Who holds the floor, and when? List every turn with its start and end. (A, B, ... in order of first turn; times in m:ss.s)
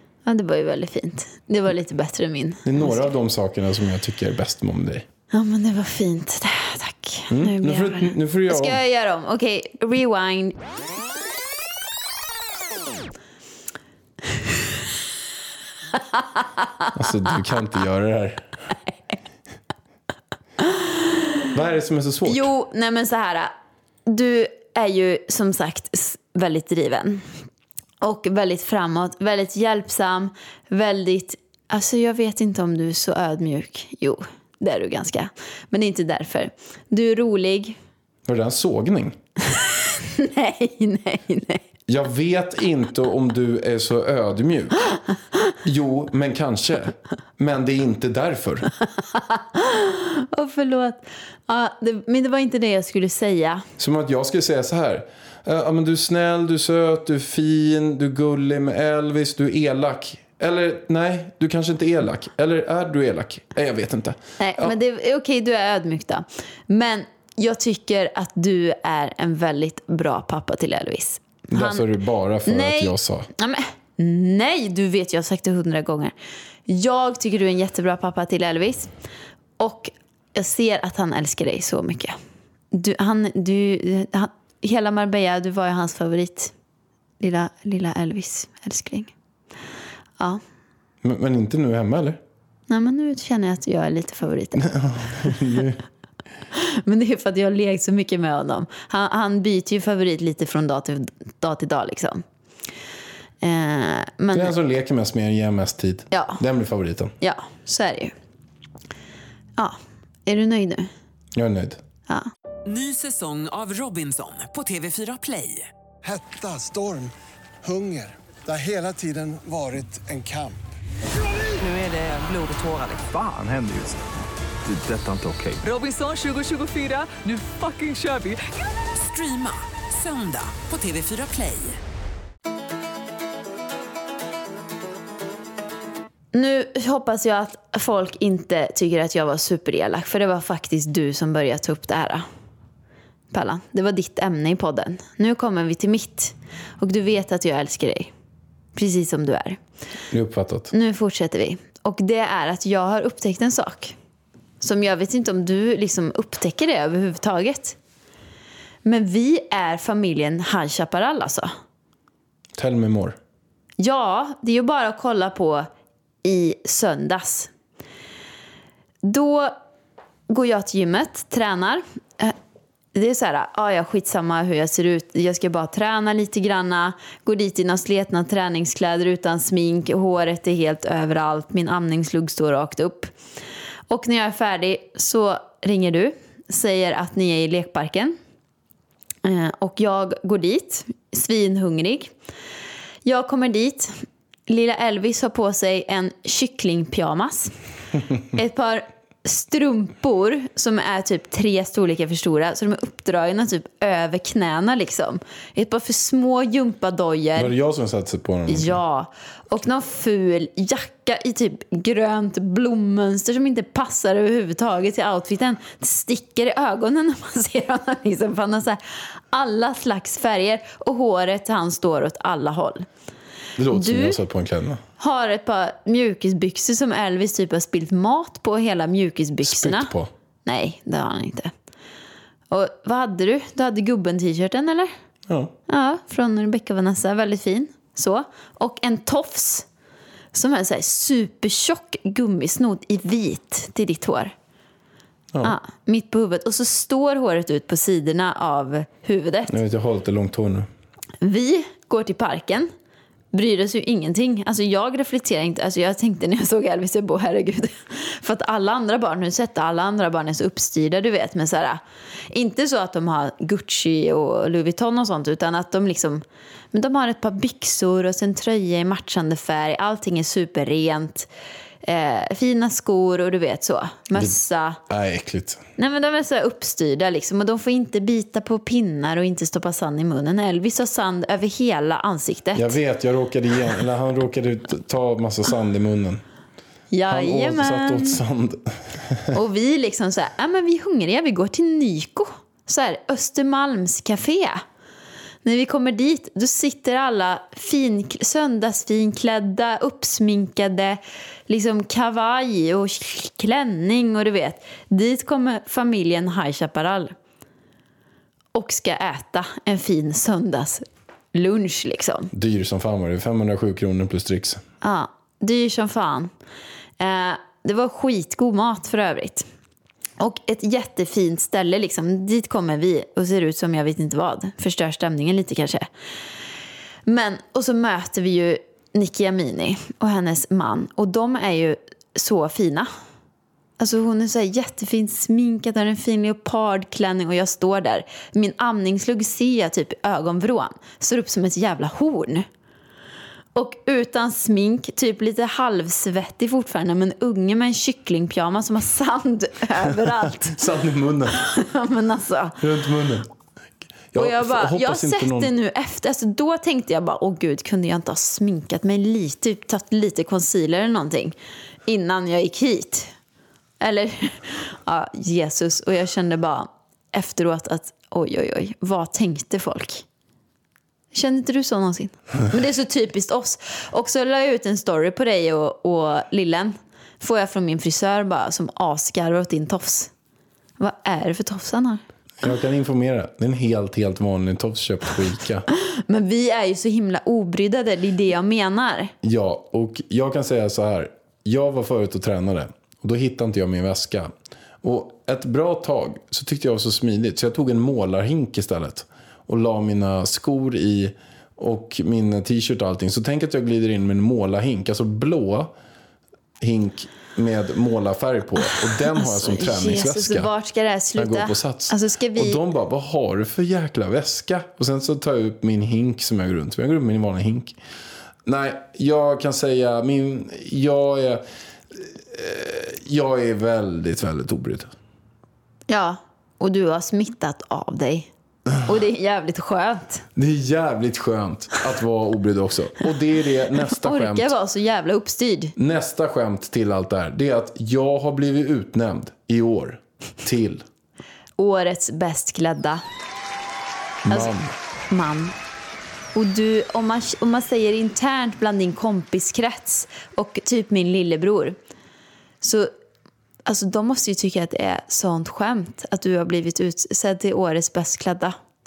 0:00.2-0:03.1 A
0:02.6-0:05.0 B
0:05.3-0:10.6 A
0:07.3-0:08.8 B
0:15.9-0:16.9 A
0:16.9-0:18.5 B
0:20.6-0:20.9 A
0:21.5-0:22.5 B
0:22.2-0:23.5 A
0:24.1-0:27.3 A
0:28.0-0:37.8 A
0:38.3-0:39.2 B
0:39.9-0:41.7 A
0:41.9-0:45.0 B
0:45.6-0:48.7 B
0:49.1-0:53.6 A
0:53.8-1:04.8 B
1:04.4-1:11.9 A
1:11.5-1:13.3 B
1:12.4-1:16.1 A
1:16.7-1:18.9 A
1:19.6-1:22.2 A
1:22.7-1:26.5 A
1:27.2-1:29.1 A
1:31.0-1:32.2 B
1:32.7-1:34.7 A
1:34.6-1:35.8 B
1:36.5-1:42.2 A
1:43.4-1:44.6 A
1:44.3-1:47.1 B
1:46.1-1:46.4 A
1:47.2-1:48.1 A
1:49.6-1:50.9 A
1:51.4-1:51.8 B
1:52.7-1:55.7 C
1:56.0-1:57.1 D
1:57.6-2:00.6 D
2:01.6-2:03.0 C
2:02.9-2:04.0 E
2:04.6-2:05.6 E
2:05.6-2:11.8 C
2:16.3-2:22.2 A
2:23.3-2:28.1 A
2:28.8-2:29.6 A
2:30.1-2:30.7 B
2:30.7-2:33.9 A
2:34.6-2:37.8 A
2:38.8-2:41.5 A
2:42.6-2:43.2 B
2:43.8-2:45.7 A
2:46.2-2:47.5 A
2:49.0-2:49.5 A
2:50.3-2:52.4 A
2:52.9-3:03.1 A
3:03.9-3:08.2 A
3:09.2-3:12.1 A
3:13.0-3:14.0 A
3:14.5-3:17.6 A
3:18.3-3:27.5 A
3:27.4-3:28.8 B
3:28.5-3:38.8 A
3:39.3-3:42.9 A
3:43.6-3:44.8 B
3:43.7-3:44.2 A
3:45.0-3:49.9 A
3:49.4-3:50.1 B
3:50.5-3:51.5 A
3:52.5-3:54.9 A
3:55.3-3:55.5 B
3:55.7-3:59.7 A
4:00.3-4:04.3 A
4:05.4-4:09.5 A
4:09.5-4:10.7 B
4:11.2-4:12.7 A
4:13.3-4:31.3 A
4:31.8-4:34.8 A
4:34.9-4:35.6 B
4:35.8-4:42.8 A
4:42.6-4:46.2 B
4:46.9-4:48.2 A
4:47.1-4:49.4 B
4:49.3-4:54.6 A
4:55.4-5:07.2 A
5:08.5-5:12.3 A
5:12.3-5:14.6 B
5:14.8-5:16.3 A
5:17.0-5:19.5 A
5:20.2-5:25.9 A
5:27.1-5:32.9 A
5:33.8-5:42.5 A
5:43.6-5:50.6 A
5:50.1-5:51.4 B
5:51.3-5:52.6 A
5:52.6-5:53.3 B
5:54.1-5:55.5 B
5:54.2-6:01.4 A
6:01.9-6:03.1 A
6:03.8-6:10.0 A
6:11.1-6:20.1 A
6:20.8-6:22.0 A
6:22.4-6:25.7 B
6:25.7-6:29.1 A
6:29.2-6:34.3 B
6:34.8-6:45.7 B
6:46.6-6:50.5 B
6:49.1-6:52.6 A
6:51.2-6:57.8 B
6:58.5-7:04.9 B
7:05.9-7:08.3 A
7:08.8-7:10.2 A
7:10.4-7:14.5 B
7:13.9-7:15.7 A
7:15.8-7:20.8 B
7:21.6-7:23.0 A
7:24.3-7:24.7 B
7:24.3-7:25.6 A
7:26.4-7:31.8 A
7:32.6-7:32.9 A
7:33.7-7:38.6 A